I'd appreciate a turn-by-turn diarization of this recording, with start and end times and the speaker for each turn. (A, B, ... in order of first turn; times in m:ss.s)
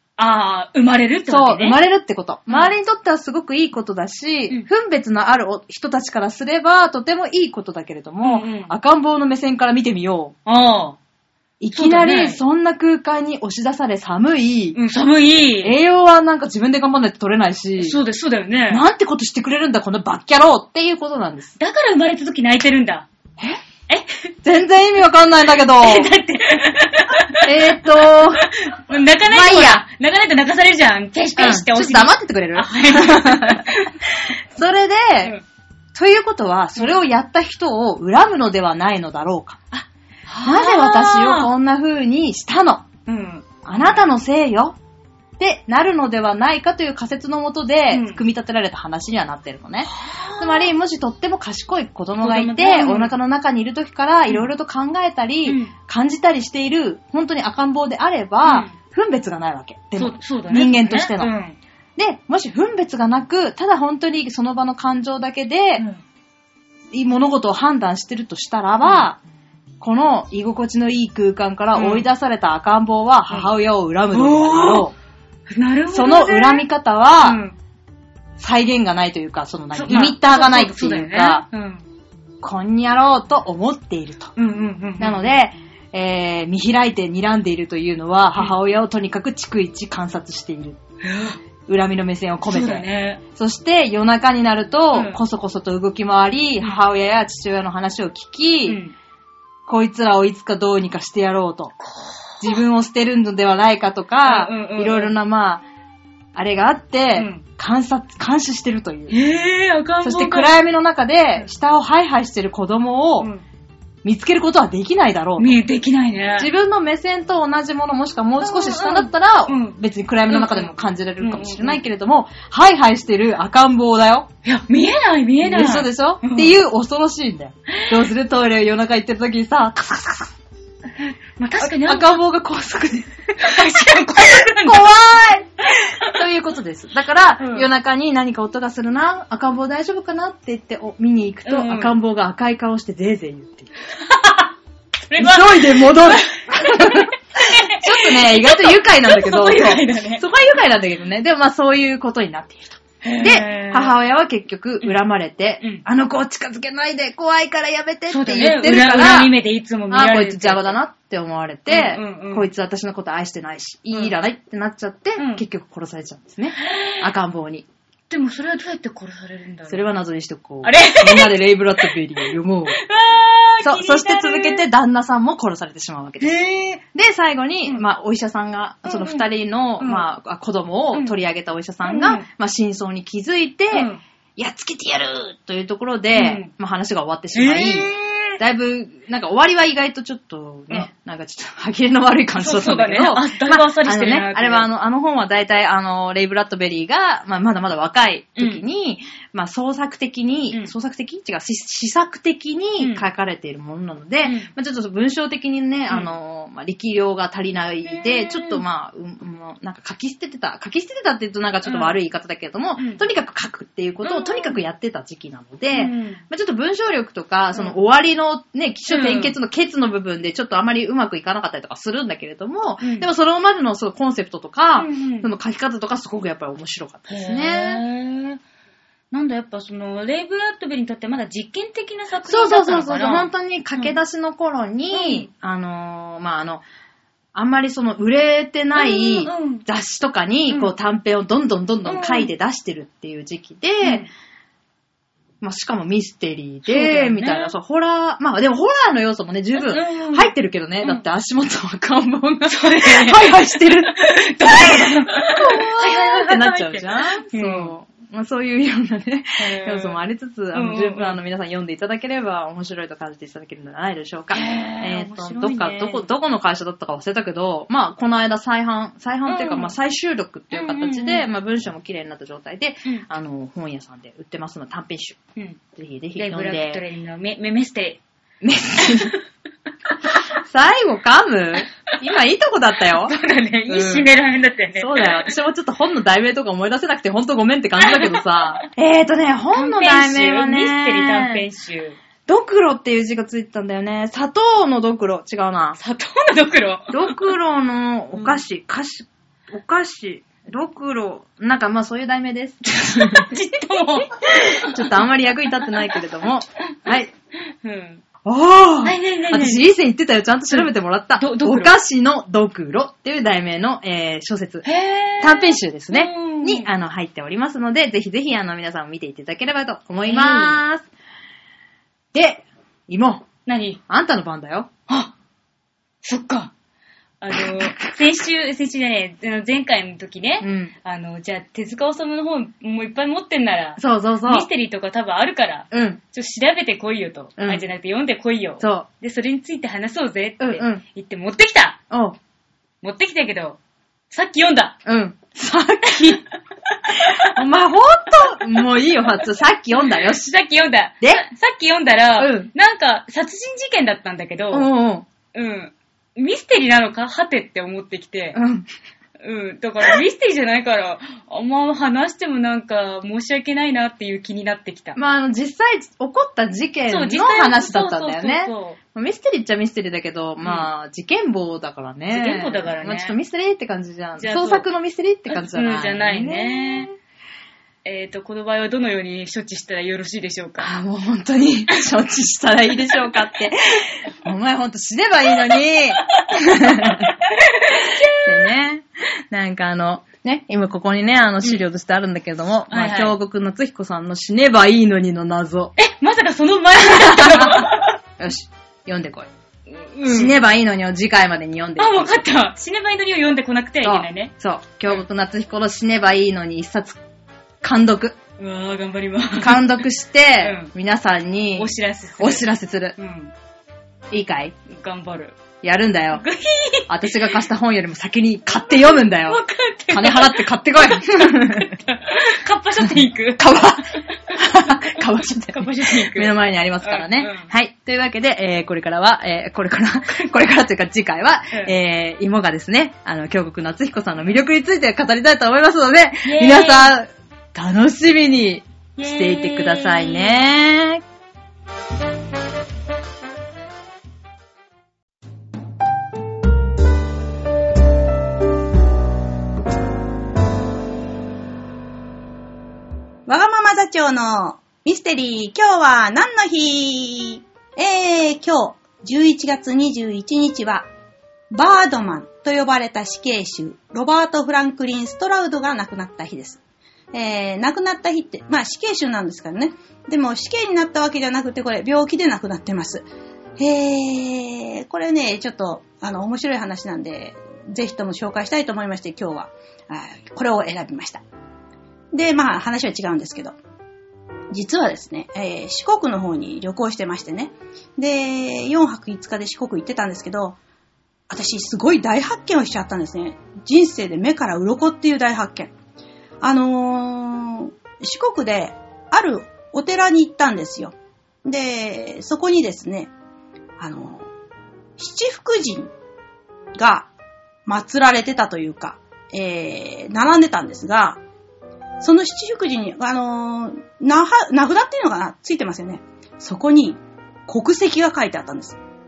0:00.2-0:01.8 A
0:01.3-0:10.3 B
0:02.5-0:02.7 A
0:08.2-0:08.7 A
0:10.4-0:11.0 A
0:11.6-0:14.8 B
0:11.7-0:12.4 A
0:14.7-0:15.8 A
0:15.6-0:18.0 B
0:17.8-0:18.8 A
0:18.7-0:21.6 B
0:21.6-0:23.1 A
0:23.9-0:24.3 A
0:24.4-0:26.1 B
0:25.8-0:34.0 A
0:27.4-0:28.5 B
0:29.2-0:29.8 B
0:31.4-0:33.7 B
0:34.5-0:35.3 B
0:35.9-0:39.6 B
0:36.8-0:37.0 A
0:39.7-0:41.5 A
0:40.4-0:42.9 B
0:43.0-0:44.1 A
0:43.6-0:44.8 B
0:45.4-1:01.3 B
0:47.9-0:48.2 A
0:49.8-0:50.7 A
0:52.2-0:53.1 A
0:55.4-0:55.7 A
0:58.4-0:58.7 A
1:00.0-1:01.6 A
1:02.0-1:05.8 B
1:06.9-1:09.2 B
1:08.8-1:09.1 A
1:09.8-1:14.9 B
1:11.7-1:12.1 A
1:14.1-1:14.9 A
1:15.5-1:16.6 A
1:15.9-1:17.4 B
1:17.2-1:17.6 A
1:18.4-1:21.4 B
1:19.7-1:21.8 A
1:22.4-1:24.3 B
1:24.4-1:25.3 A
1:25.0-1:30.8 B
1:28.3-1:28.6 A
1:31.0-1:31.4 A
1:31.6-1:38.8 B
1:32.5-1:33.2 A
1:34.9-1:35.2 A
1:38.7-1:38.9 A
1:39.7-1:41.7 B
1:41.8-1:42.6 A
1:42.4-1:45.6 B
1:44.2-1:45.1 A
1:46.3-1:49.1 B
1:47.1-1:47.4 A
1:49.1-1:50.5 A
1:50.0-1:53.3 B
1:54.0-1:55.6 B
1:55.4-1:56.5 A
1:56.4-2:04.3 B
1:58.4-1:59.8 A
2:00.3-2:01.8 A
2:04.4-2:06.6 A
2:05.4-2:10.4 B
2:07.7-2:08.1 A
2:11.0-2:12.2 A
2:11.6-2:23.7 B
2:13.4-2:14.9 A
2:15.7-2:16.2 A
2:17.4-2:17.7 A
2:21.4-2:21.9 A
2:24.0-2:24.5 A
2:25.1-2:30.2 A
2:25.2-2:39.3 B
2:33.0-2:33.9 A
2:38.1-2:40.8 A
2:39.9-2:47.6 B
2:41.7-2:42.5 A
2:45.2-2:45.4 A
2:46.5-2:47.1 A
2:48.1-2:49.8 A
2:49.7-2:52.8 B
2:50.6-2:51.9 A
2:52.8-2:54.6 A
2:53.6-2:56.4 B
2:56.2-2:56.8 A
2:56.9-3:47.8 B
2:58.8-2:59.3 A
2:59.8-3:00.1 A
3:01.8-3:02.3 A
3:03.7-3:04.0 A
3:06.1-3:06.5 A
3:07.3-3:08.4 A
3:12.4-3:14.7 A
3:18.4-3:18.6 A
3:22.8-3:23.0 A
3:24.2-3:24.5 A
3:27.9-3:28.6 A
3:31.6-3:32.0 A
3:32.8-3:33.0 A
3:34.0-3:34.6 A
3:35.7-3:36.2 A
3:38.9-3:39.4 A
3:42.8-3:43.1 A
3:44.8-3:45.3 A
3:47.1-3:48.4 A
3:49.1-3:54.0 A
3:52.2-3:56.6 B
3:54.9-3:55.3 A
3:57.3-4:04.1 B
3:58.7-3:59.6 A
4:01.8-4:02.3 A
4:03.8-4:04.1 A
4:05.4-4:13.9 B
4:06.6-4:07.5 A
4:09.6-4:10.3 A
4:12.4-4:17.7 A
4:14.5-4:14.7 B
4:15.4-4:35.2 B
4:19.4-4:20.0 A
4:20.5-4:21.2 A
4:24.3-4:26.0 A
4:29.3-4:29.7 A
4:30.5-4:31.3 A
4:35.7-4:36.8 B
4:36.2-4:38.0 A
4:38.4-4:39.2 B
4:38.8-4:39.2 A
4:39.9-4:40.2 A
4:40.4-4:43.1 B
4:43.0-4:45.3 A
4:43.7-4:44.1 B
4:44.8-4:51.4 B
4:47.8-4:48.6 A
4:49.5-4:52.0 A
4:52.3-4:55.8 B
4:55.8-4:57.3 A
4:56.9-5:03.3 B
5:03.0-5:04.8 A
5:04.3-5:07.1 B
5:07.6-5:08.0 A
5:08.2-5:14.6 B
5:08.8-5:09.6 A
5:10.5-5:11.7 A
5:14.6-5:16.7 A
5:15.2-5:20.8 B
5:20.0-5:20.6 A
5:22.1-5:23.3 B
5:23.4-5:23.8 A
5:23.9-5:24.7 B
5:26.0-5:26.5 A
5:27.2-5:41.8 A
5:30.4-5:30.7 B
5:33.8-5:34.5 B
5:35.7-5:36.0 B
5:37.4-5:37.6 B
5:38.6-5:38.9 B
5:40.4-5:40.8 B
5:41.9-5:42.2 B
5:42.8-5:43.6 A
5:44.1-5:44.8 A
5:44.8-5:46.2 B
5:46.9-5:47.3 A
5:47.0-5:50.3 B
5:49.7-5:54.7 A
5:52.2-5:52.5 B
5:54.5-5:55.1 B
5:55.3-5:58.4 A
5:58.3-5:58.7 B
5:59.2-6:05.0 A
6:05.0-6:16.9 B
6:06.9-6:08.8 A
6:10.4-6:10.7 A
6:12.1-6:13.2 A
6:14.2-6:14.7 A
6:15.3-6:16.9 A
6:17.8-6:20.7 A
6:20.6-6:27.1 B
6:26.1-6:28.5 A
6:27.7-6:35.7 B
6:32.7-6:33.1 A
6:35.8-6:38.0 A
6:36.8-6:39.3 B
6:39.7-6:40.4 A
6:40.1-6:42.1 B
6:41.8-6:44.3 A
6:43.8-6:47.0 B
6:47.6-6:48.2 B
6:48.4-6:49.8 A
6:49.4-6:53.0 B
6:50.4-6:50.7 A
6:51.6-6:53.3 A
6:54.1-6:54.5 B
6:54.7-6:55.4 A
6:55.6-6:56.2 B
6:56.1-6:57.3 A
6:56.9-7:01.8 B
6:58.9-7:04.4 A
7:02.8-7:21.0 B
7:05.5-7:07.5 A
7:16.2-7:16.9 A
7:19.0-7:20.4 A
7:33.3-7:40.9 C
7:41.5-7:46.6 C
7:47.1-7:53.0 C
7:53.6-8:01.2 C
8:02.1-8:03.6 C
8:04.5-8:10.6 C
8:11.3-8:15.7 C
8:16.4-8:20.9 C
8:21.4-8:23.1 C
8:23.8-8:24.3 C
8:25.0-8:25.9 C
8:26.7-8:27.1 C
8:27.6-8:31.2 C
8:32.0-8:38.8 C